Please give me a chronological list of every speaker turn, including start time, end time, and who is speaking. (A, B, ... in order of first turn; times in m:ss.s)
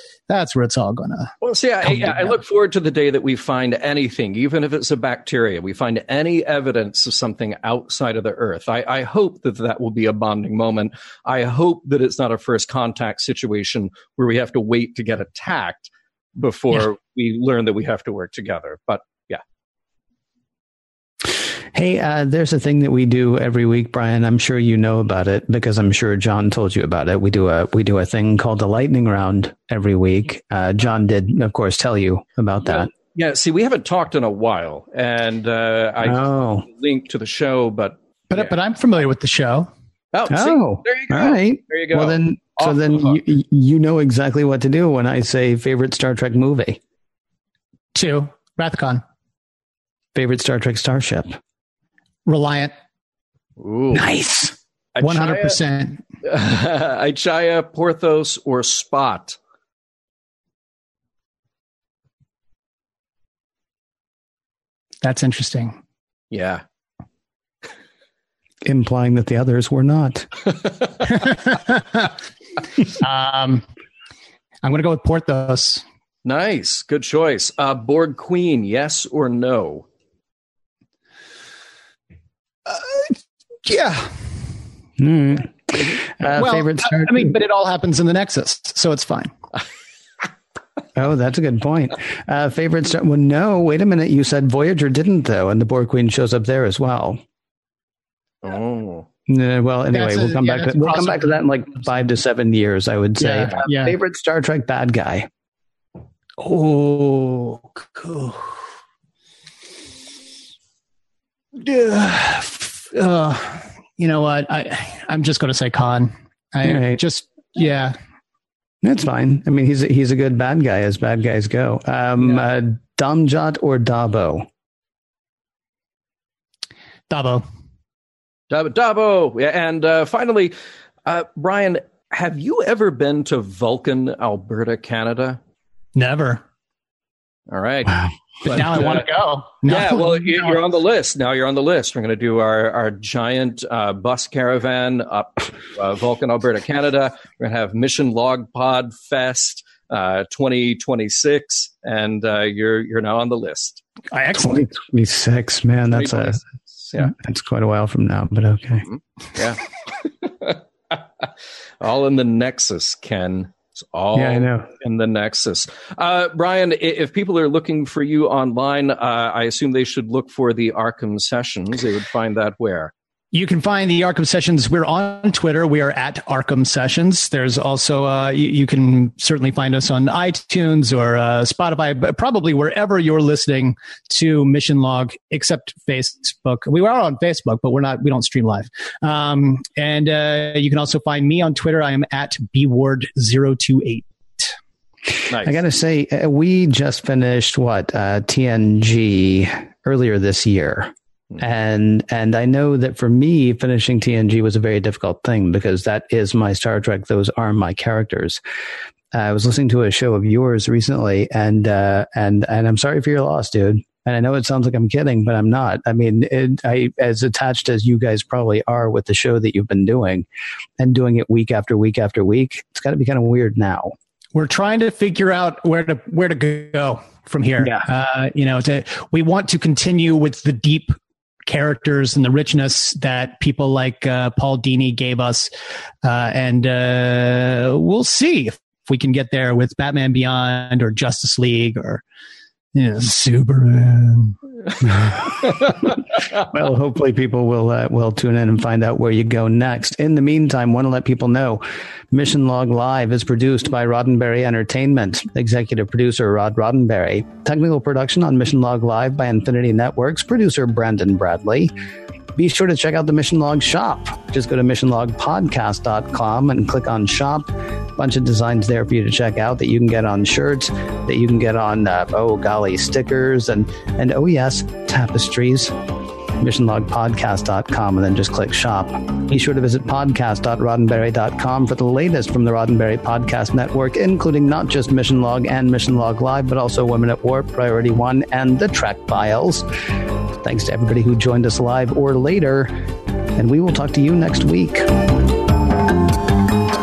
0:00.3-0:02.4 A
0:01.4-0:19.4 B
0:21.7-0:32.9 C
0:32.7-0:38.5 B
0:36.0-0:36.6 C
0:38.3-0:39.7 A
0:40.1-0:42.7 B
0:40.3-0:46.8 C
0:47.9-0:49.0 A
0:50.1-0:51.4 C
0:52.2-0:52.7 A
0:53.6-0:54.1 B
0:53.9-0:54.5 C
0:54.9-0:55.6 B
0:55.0-0:56.0 A
0:56.2-0:59.4 B
1:05.0-1:05.8 A
1:06.3-1:06.6 B
1:08.6-1:10.3 C
1:11.2-1:12.1 A
1:13.0-1:13.6 A
1:14.6-1:15.8 A
1:16.2-1:19.8 B
1:22.7-1:24.2 A
1:25.0-1:27.3 C
1:26.3-1:29.3 A
1:30.9-1:37.2 C
1:38.4-1:39.0 B
1:39.3-1:45.3 C
1:39.9-1:41.4 A
1:43.2-1:44.0 A
1:46.4-1:48.5 A
1:51.6-1:58.0 A
1:56.6-1:57.0 C
1:58.8-2:04.5 C
2:07.1-2:07.4 A
2:08.5-2:10.5 B
2:11.0-2:15.4 B
2:16.0-2:16.4 A
2:17.5-2:19.0 B
2:18.4-2:20.6 A
2:19.6-2:33.8 B
2:34.1-2:34.7 A
2:34.4-2:36.4 C
2:35.9-2:37.1 B
2:36.9-2:38.8 C
2:38.9-2:41.3 B
2:41.8-2:52.9 B
2:44.1-2:44.7 C
2:53.3-3:14.5 A
3:15.3-3:15.6 B
3:15.4-3:28.4 C
3:29.1-3:40.2 C
3:40.8-3:43.9 C
3:44.3-3:55.5 A
3:47.6-3:47.8 C
3:56.0-4:02.0 A
4:02.7-4:04.4 A
4:04.9-4:05.5 C
4:06.4-4:21.7 C
4:22.4-4:35.7 C
4:36.4-4:49.6 C
4:50.4-4:52.7 C
4:53.4-4:55.0 C